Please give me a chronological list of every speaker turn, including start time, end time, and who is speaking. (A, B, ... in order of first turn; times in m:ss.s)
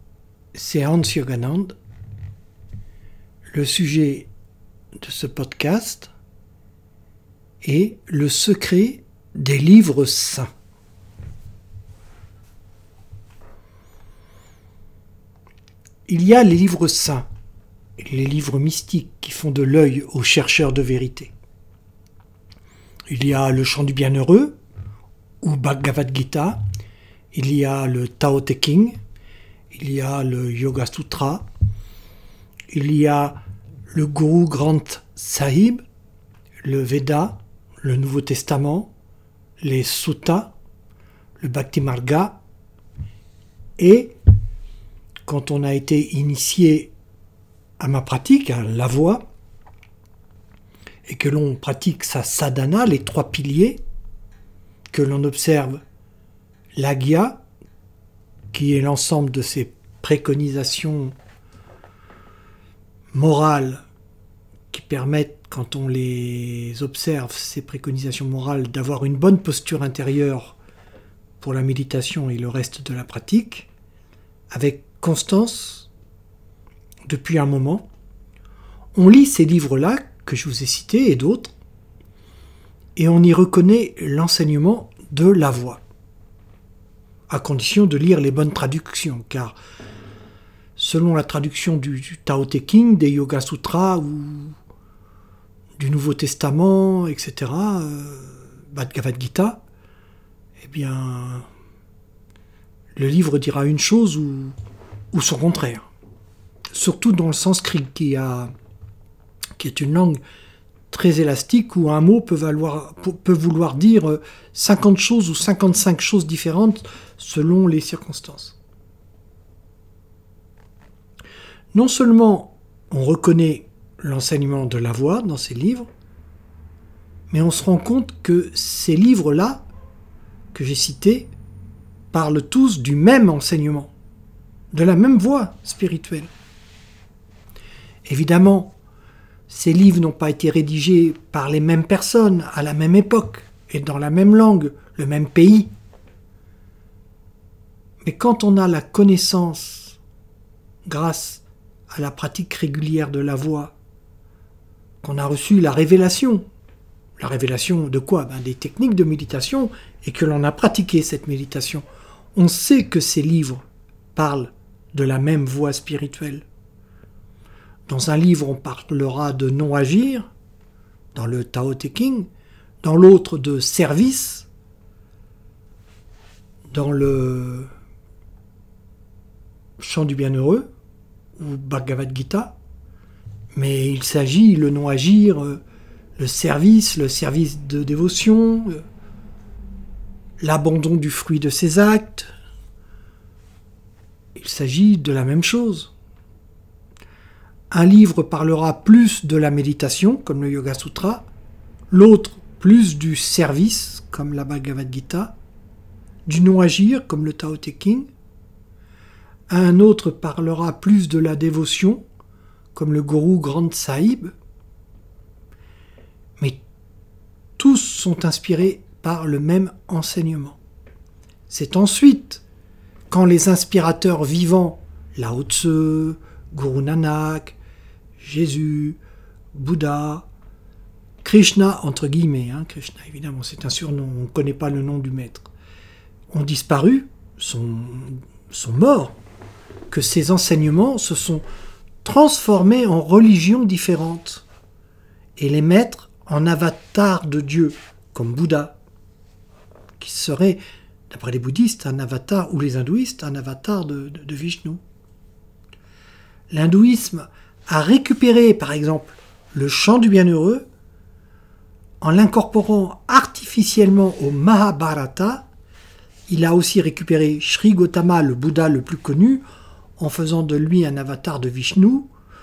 0:00.5-0:01.7 A
0:03.5-0:04.3 A
0:05.0-0:06.1 A
0:07.6-0:10.5 A
0:16.1-0:17.2 A
0:18.0-0:21.3 A
0:23.1-0:24.6 A
0:25.4-0:26.6 A
0:27.3-0:29.0 A
0:29.7-0:31.5 A
0:32.7-0:33.4 A
0:33.9-0:35.8 A
0:36.6-0:38.9 A
0:39.6-0:40.5 A
0:41.4-0:42.4 A
0:43.8-0:44.2 A
0:45.2-0:46.9 A
0:47.8-0:49.3 A
0:51.0-0:53.8 A
0:54.9-0:55.8 A
0:56.8-0:57.4 A
0:58.5-1:01.1 A
1:03.1-1:03.8 A
1:04.7-1:10.6 A
1:11.4-1:13.7 A
1:14.5-1:15.9 A
1:17.1-1:17.9 A
1:18.9-1:21.5 A
1:23.0-1:25.8 A
1:27.3-1:29.6 A
1:30.8-1:34.6 A
1:35.8-1:39.6 A
1:40.6-1:41.5 A
1:42.9-1:44.5 A
1:45.1-1:45.9 A
1:46.7-1:48.5 A
1:49.6-1:50.2 A
1:50.9-1:58.6 A
2:01.7-2:05.9 A
2:07.3-2:09.6 A
2:10.5-2:11.3 A
2:12.1-2:13.9 A
2:14.7-2:16.3 A
2:18.0-2:18.8 A
2:19.5-2:25.7 A
2:28.0-2:30.0 A
2:30.8-2:33.7 A
2:35.0-2:36.4 A
2:37.2-2:41.8 A
2:42.4-2:43.6 A
2:44.1-2:46.4 A
2:47.9-2:50.3 A
2:51.1-2:52.3 A
2:52.8-2:54.5 A
2:56.7-2:57.7 A
2:59.8-3:00.7 A
3:01.4-3:02.6 A
3:03.5-3:05.6 A
3:06.2-3:08.8 A
3:10.4-3:12.3 A
3:14.3-3:15.9 A
3:17.7-3:21.3 A
3:21.9-3:25.4 A
3:26.2-3:28.1 A
3:29.5-3:32.0 A
3:32.7-3:34.3 A
3:37.6-3:40.6 A
3:41.5-3:42.4 A
3:43.1-3:47.6 A
3:48.2-3:49.0 A
3:49.5-3:50.3 A
3:51.2-3:55.5 A
3:56.3-3:59.2 A
3:59.9-4:01.4 A
4:02.0-4:04.4 A
4:05.4-4:08.8 A
4:10.0-4:14.8 A
4:16.5-4:20.6 A
4:22.0-4:25.5 A
4:26.3-4:29.4 A
4:30.0-4:32.1 A